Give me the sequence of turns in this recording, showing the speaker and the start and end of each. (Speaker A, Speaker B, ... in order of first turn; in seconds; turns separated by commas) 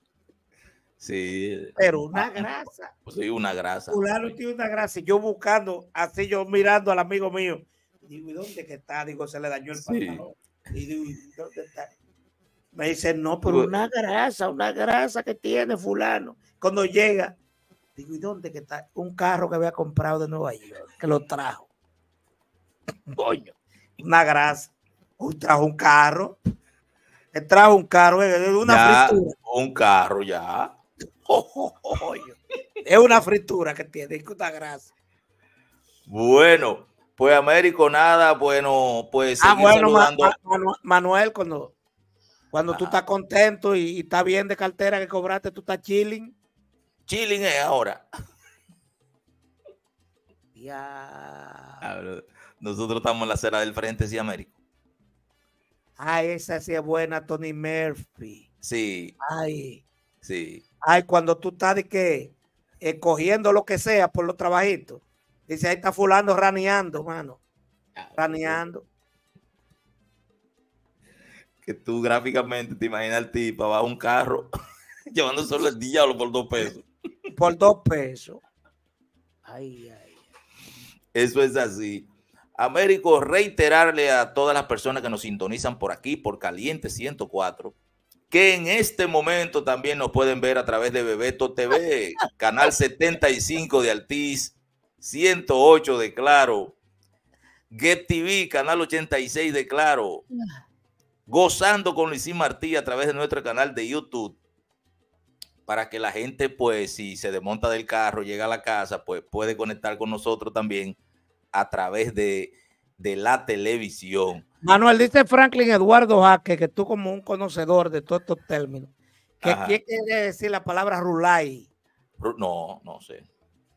Speaker A: 1.0-2.5, Speaker B: 1.8-2.9, Speaker A: 3.0-4.0, Speaker B: 3.9-11.9, Speaker A: 9.8-10.3, Speaker B: 12.7-17.4, Speaker A: 13.4-13.7, Speaker B: 17.9-21.7, Speaker B: 23.1-26.4, Speaker B: 27.3-29.3, Speaker A: 28.6-30.7, Speaker B: 31.3-34.9, Speaker A: 36.1-40.3, Speaker B: 39.4-41.7, Speaker B: 42.5-46.3, Speaker A: 42.7-43.0, Speaker A: 47.1-48.0, Speaker B: 50.5-51.8, Speaker A: 51.8-54.5, Speaker B: 56.0-58.5, Speaker A: 58.6-59.1, Speaker B: 59.2-59.8, Speaker A: 60.2-60.6, Speaker B: 60.8-67.4, Speaker A: 68.0-68.6, Speaker B: 68.1-68.8, Speaker A: 71.6-74.5, Speaker A: 75.1-76.9, Speaker B: 77.3-78.4, Speaker B: 79.4-80.3, Speaker A: 81.1-87.7, Speaker A: 88.3-96.7, Speaker A: 97.7-100.2, Speaker A: 101.3-104.4, Speaker A: 105.7-111.0, Speaker A: 111.5-114.4, Speaker B: 114.6-121.7, Speaker A: 119.4-119.8, Speaker A: 122.2-123.2